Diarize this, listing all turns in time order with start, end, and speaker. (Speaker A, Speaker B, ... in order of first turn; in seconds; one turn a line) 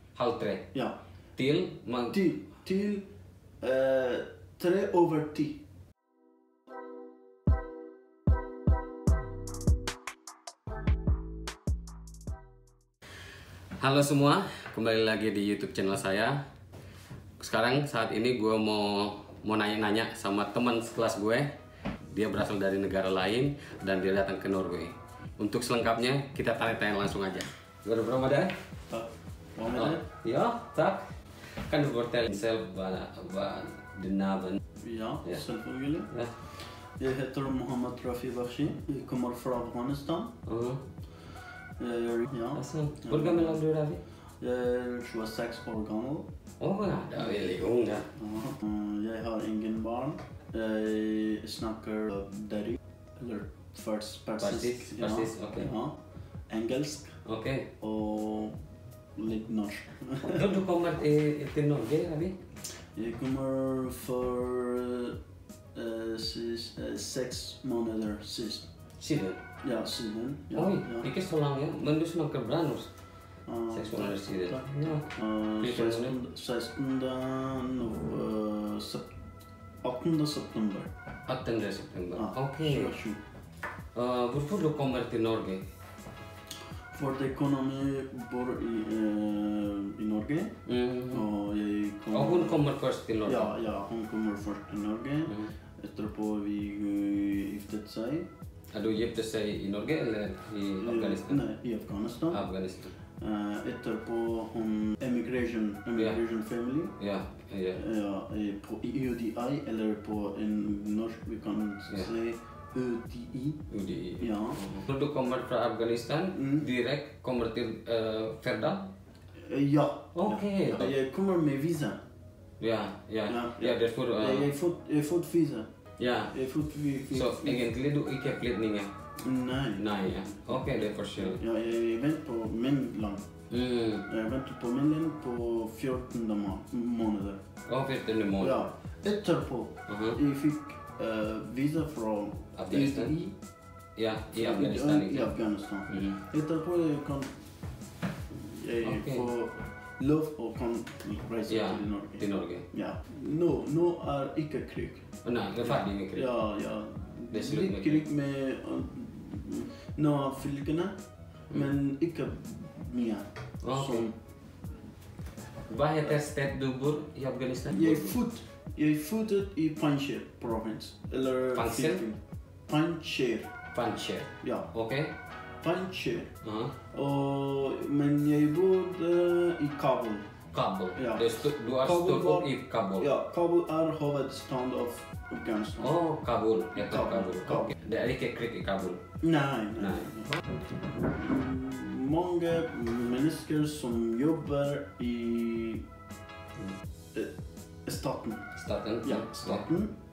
Speaker A: 0.1-0.7
Speaker A: 1.4-2.2
Speaker B: 2.1-3.1
Speaker B: 3.6-5.6
Speaker A: 13.8-16.4
Speaker A: 17.4-21.5
Speaker A: 22.1-28.5
Speaker B: 28.9-30.0
Speaker A: 29.7-34.6
Speaker B: 34.8-40.4
Speaker A: 40.5-40.8
Speaker B: 41.8-43.6
Speaker A: 42.5-44.0
Speaker B: 44.4-46.3
Speaker A: 46.6-48.1
Speaker B: 48.2-56.0
Speaker A: 54.4-55.7
Speaker B: 56.5-57.2
Speaker A: 57.2-57.7
Speaker B: 57.8-58.6
Speaker B: 59.2-60.5
Speaker A: 60.3-62.4
Speaker B: 62.9-65.2
Speaker B: 65.8-68.7
Speaker A: 69.0-69.4
Speaker B: 69.6-71.1
Speaker A: 70.5-72.9
Speaker B: 73.5-79.1
Speaker A: 73.7-76.1
Speaker B: 79.8-80.9
Speaker A: 81.3-82.9
Speaker B: 82.1-83.2
Speaker A: 84.0-85.6
Speaker B: 86.9-90.5
Speaker A: 90.7-91.3
Speaker B: 91.1-92.6
Speaker A: 92.1-93.5
Speaker B: 93.2-98.3
Speaker A: 98.7-101.4
Speaker B: 100.8-102.4
Speaker A: 102.3-102.9
Speaker B: 103.2-107.0
Speaker A: 107.0-107.8
Speaker B: 107.7-113.6
Speaker A: 113.7-118.9
Speaker B: 114.2-114.6
Speaker B: 116.3-116.7
Speaker B: 119.4-122.0
Speaker A: 120.2-120.9
Speaker A: 122.6-124.5
Speaker B: 123.3-125.7
Speaker A: 126.0-126.3
Speaker B: 126.3-127.7
Speaker A: 127.1-128.9
Speaker B: 129.2-129.8
Speaker A: 129.8-131.4
Speaker B: 131.2-133.2
Speaker A: 133.5-134.1
Speaker B: 134.1-137.4
Speaker A: 137.7-138.7
Speaker B: 138.4-143.3
Speaker A: 139.9-140.2
Speaker A: 142.6-143.1
Speaker A: 144.0-145.3
Speaker B: 144.4-147.3
Speaker A: 145.9-146.2
Speaker B: 148.3-155.1
Speaker A: 148.8-149.3
Speaker A: 151.5-152.7
Speaker A: 155.2-156.3
Speaker B: 155.6-160.9
Speaker A: 157.3-158.0
Speaker B: 161.5-164.2
Speaker A: 163.6-164.1
Speaker A: 165.7-168.2
Speaker B: 167.7-173.5
Speaker A: 171.5-172.0
Speaker A: 173.7-175.1
Speaker B: 174.4-174.7
Speaker B: 175.6-176.3
Speaker A: 176.4-176.7
Speaker B: 176.9-180.3
Speaker A: 180.5-183.1
Speaker B: 180.9-185.9
Speaker A: 185.8-189.0
Speaker B: 186.8-187.8
Speaker B: 189.2-190.4
Speaker A: 189.8-190.3
Speaker B: 190.9-195.8
Speaker B: 197.9-198.5
Speaker A: 198.6-199.6
Speaker B: 199.0-199.9